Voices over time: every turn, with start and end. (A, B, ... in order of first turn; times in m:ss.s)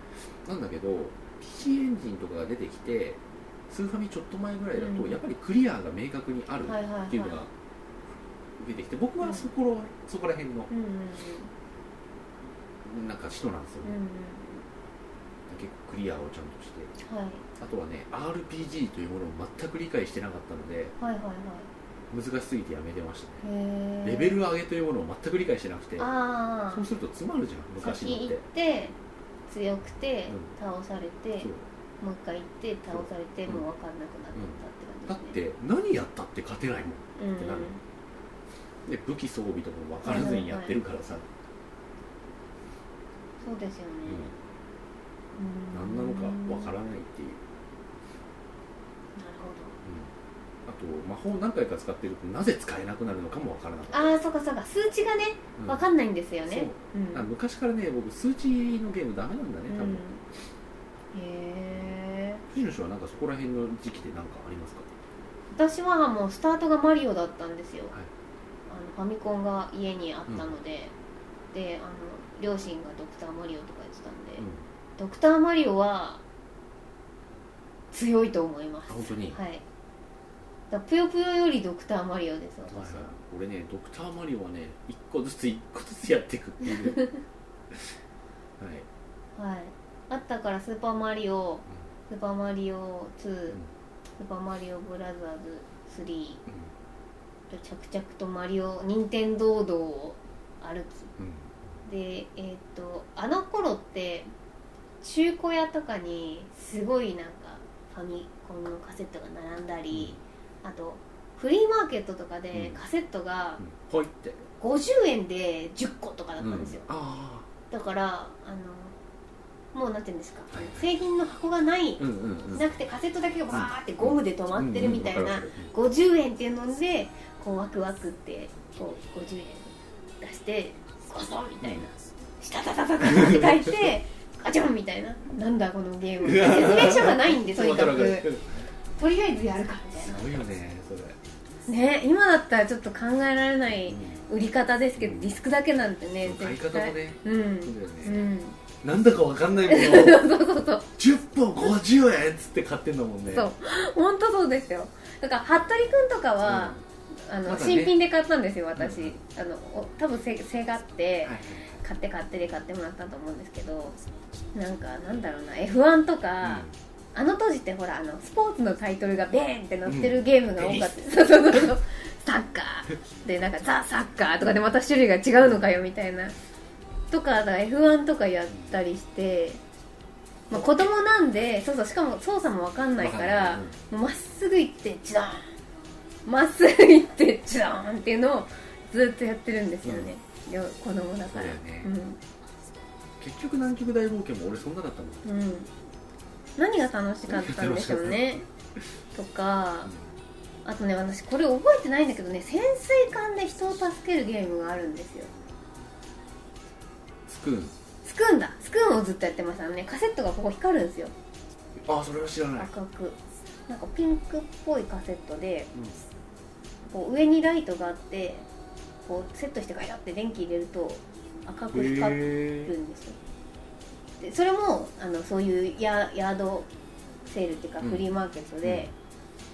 0:00.4-0:07.5 A
0:04.8-0:05.2 B
0:06.6-0:07.4 B
0:08.6-0:10.7 A
0:09.2-0:09.5 B
0:10.7-0:11.5 B
0:12.8-0:13.9 A
0:13.8-0:14.6 B
0:15.5-0:16.9 A
0:17.0-0:17.4 B
0:17.6-0:20.9 A
0:21.0-0:21.7 B
0:22.1-0:23.4 A
0:23.4-0:24.4 B
0:24.0-0:26.1 A
0:26.0-0:26.8 B
0:26.7-0:28.4 A
0:27.8-0:29.0 B
0:29.5-0:31.5 B
0:32.0-0:35.4 B
0:32.9-0:33.7 A
0:34.3-0:37.8 A
0:37.2-0:37.8 B
0:38.9-0:41.3 A
0:40.0-0:40.8 B
0:43.4-0:44.3 B
0:44.1-0:44.3 A
0:45.4-0:46.8 B
0:45.7-0:47.4 A
0:49.2-0:49.8 B
0:49.8-0:50.1 A
0:50.7-0:54.1 A
0:53.9-0:57.3 B
0:55.6-0:55.8 A
0:56.5-1:00.0 A
0:59.7-1:00.2 B
1:01.1-1:02.4 B
1:02.5-1:04.9 A
1:05.5-1:07.9 B
1:08.7-1:10.9 B
1:11.5-1:14.4 B
1:14.4-1:14.7 A
1:15.0-1:16.2 B
1:17.9-1:19.6 B
1:18.9-1:19.4 A
1:20.7-1:23.1 B
1:22.7-1:27.1 A
1:26.6-1:27.2 B
1:28.6-1:28.9 A
1:29.4-1:33.6 B
1:34.2-1:36.4 B
1:36.5-1:36.7 A
1:37.5-1:41.1 B
1:41.2-1:41.5 A
1:41.8-1:44.3 B
1:45.0-1:53.6 B
1:49.9-1:50.2 A
1:52.5-1:52.8 A
1:53.6-1:54.4 A
1:54.6-1:56.8 B
1:56.4-1:57.5 A
1:57.7-1:59.0 B
1:59.7-2:02.0 B
2:00.5-2:00.8 A
2:02.0-2:02.6 A
2:02.5-2:18.3 B
2:03.5-2:05.7 A
2:13.0-2:13.9 A
2:16.2-2:18.5 A
2:19.0-2:20.3 B
2:20.0-2:21.2 A
2:21.7-2:28.6 B
2:23.9-2:24.2 A
2:25.0-2:25.3 A
2:26.2-2:28.3 A
2:28.8-2:30.3 A
2:29.6-2:30.9 B
2:31.0-2:33.5 A
2:33.3-2:44.0 B
2:36.4-2:36.8 A
2:37.5-2:38.0 A
2:38.8-2:39.2 A
2:41.2-2:41.7 A
2:44.5-2:56.4 B
2:46.4-2:46.7 A
2:49.9-2:51.7 A
2:57.1-2:59.6 B
2:58.5-2:58.8 A
3:00.5-3:05.5 B
3:00.5-3:00.9 A
3:03.0-3:03.8 A
3:06.3-3:12.2 B
3:09.8-3:10.1 A
3:11.3-3:11.9 A
3:13.2-3:15.2 A
3:15.2-3:15.7 B
3:16.6-3:18.4 B
3:17.3-3:18.3 A
3:19.2-3:19.9 B
3:19.8-3:20.1 A
3:20.6-3:25.3 B
3:27.3-3:27.8 A
3:28.0-3:31.1 B
3:31.8-3:32.7 A
3:32.6-3:35.7 B
3:36.9-3:38.5 B
3:39.1-3:43.2 B
3:41.7-3:42.7 A
3:44.2-3:46.7 B
3:47.3-3:48.9 B
3:47.8-3:48.1 A
3:48.6-3:48.9 A